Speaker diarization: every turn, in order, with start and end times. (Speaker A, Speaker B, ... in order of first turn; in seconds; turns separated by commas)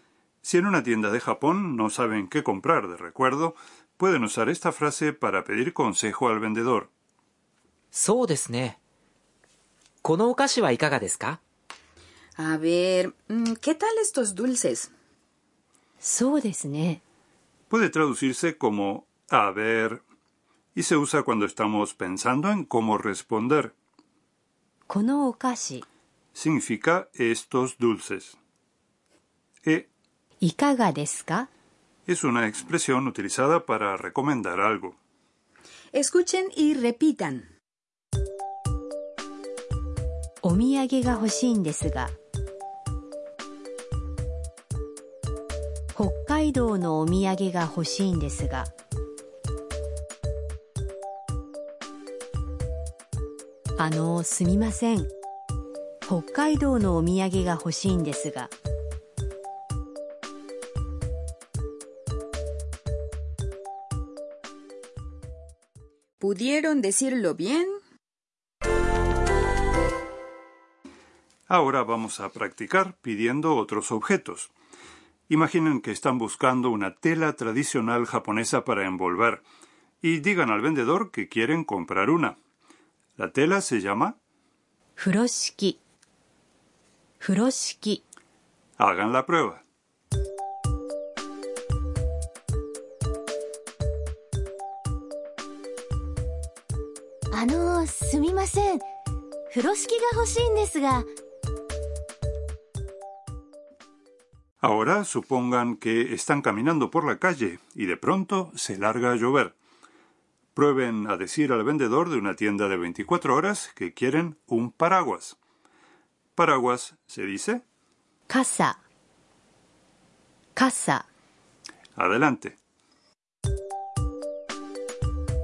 Speaker A: 0.4-6.9, Speaker B: 7.9-8.8, Speaker B: 10.0-11.4, Speaker C: 12.4-14.9, Speaker D: 16.0-17.0, Speaker A: 17.7-20.0, Speaker A: 20.8-23.7, Speaker D: 24.9-25.8, Speaker A: 26.4-28.4, Speaker D: 30.4-31.5, Speaker A: 32.1-35.0, Speaker C: 35.9-37.5, Speaker D: 40.4-42.1, Speaker D: 45.9-48.7, Speaker D: 53.8-55.1, Speaker D: 56.0-58.5, Speaker C: 66.2-67.7, Speaker A: 71.5-74.5, Speaker A: 75.3-79.4, Speaker A: 80.0-82.4, Speaker A: 83.2-84.2, Speaker D: 85.0-85.8, Speaker D: 87.2-88.0, Speaker A: 88.8-89.6, Speaker E: 97.3-98.8, Speaker E: 99.5-101.1, Speaker A: 104.6-109.5, Speaker A: 110.5-115.4, Speaker A: 116.4-117.6, Speaker D: 118.3-118.8, Speaker D: 120.5-121.0, Speaker A: 122.0-122.6